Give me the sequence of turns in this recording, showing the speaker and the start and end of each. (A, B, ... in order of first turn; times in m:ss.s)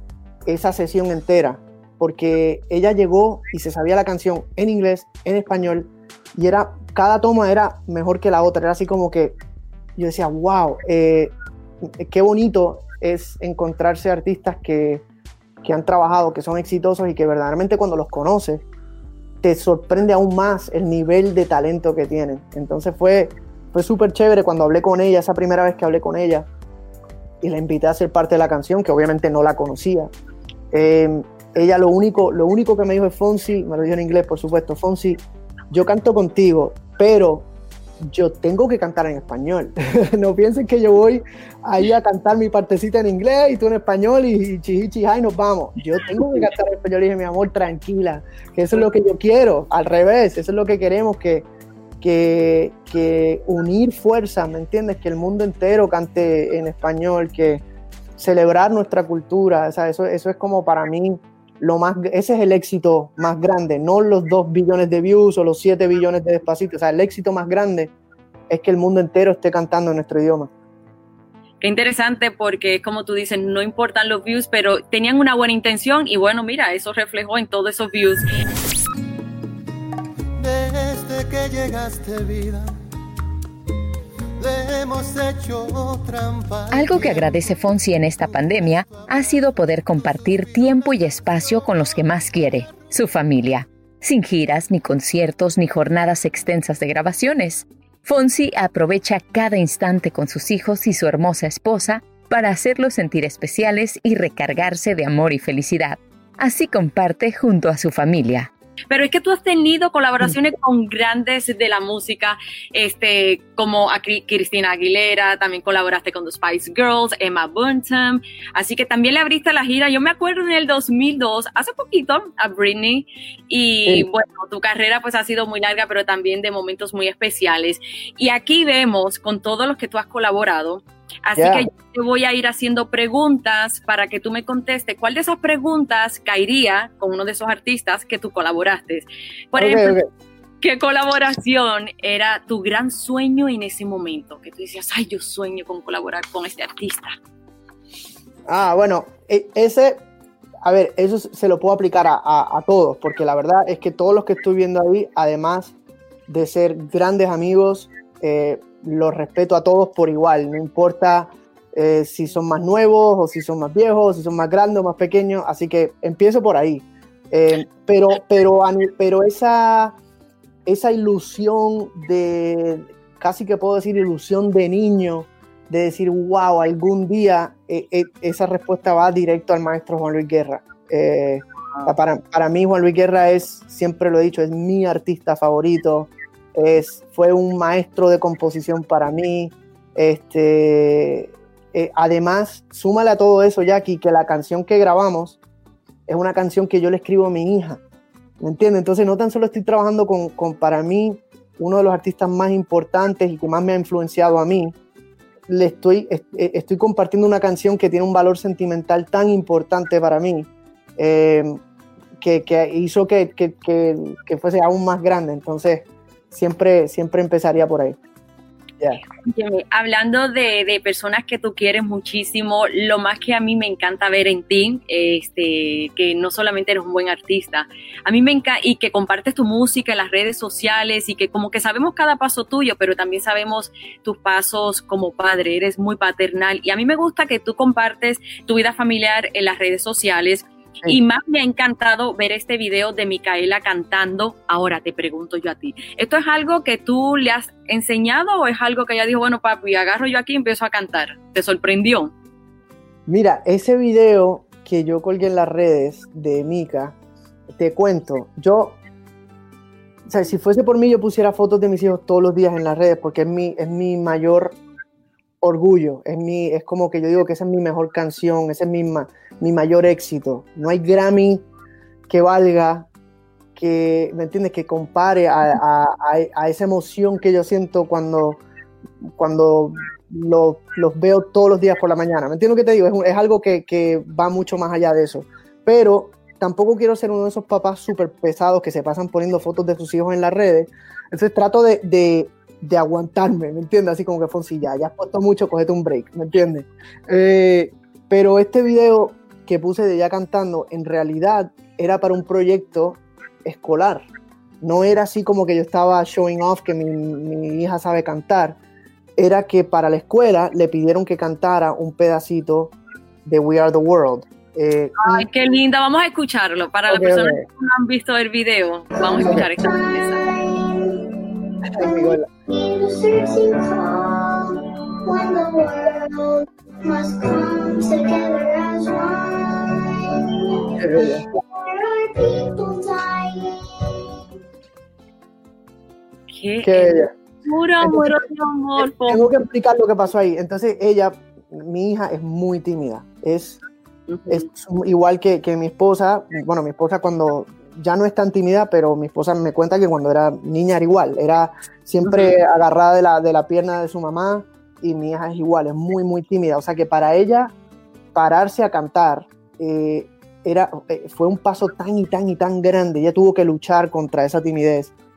0:00.4-0:09.4 A
0:10.0-0:11.3 A
0:12.0-0:15.0 A
0:15.6-0:18.6 A
0:19.4-0:26.5 A
0:27.4-0:30.1 A
0:30.7-0:37.5 A
0:38.0-0:51.4 A
0:52.0-0:57.6 A
0:58.2-1:07.9 A
1:08.5-1:10.5 A
1:11.6-1:18.2 B
1:20.7-1:22.7 C
1:24.5-1:26.5 C
1:26.7-1:48.5 D
1:48.9-2:20.0 B
2:11.4-2:11.7 A
2:19.5-2:20.1 A
2:20.6-2:27.2 B
2:28.5-2:30.0 A
2:30.6-2:35.7 A
2:36.3-2:50.0 A
2:50.6-3:15.4 A
3:16.1-3:17.8 A
3:18.4-3:24.7 A
3:25.5-3:31.6 A
3:32.2-3:38.0 A
3:39.2-4:12.1 B
4:13.1-4:17.0 A
4:17.5-4:18.8 A
4:20.0-4:24.6 A
4:25.4-4:31.4 A
4:32.1-4:32.9 A
4:33.5-4:38.4 A
4:39.0-5:04.1 A
5:04.6-5:08.6 A
5:09.2-5:15.2 A
5:15.0-5:20.2 B
5:16.9-5:17.4 A
5:19.1-5:34.2 C
5:19.2-5:19.5 A
5:21.7-5:22.2 A
5:30.8-5:31.3 A
5:36.3-5:39.3 B
5:36.6-5:37.1 A
5:37.8-5:38.2 A
5:38.8-5:43.6 A
5:44.1-5:44.5 B
5:44.3-5:57.5 A
5:52.0-5:52.4 B
5:58.1-6:04.9 A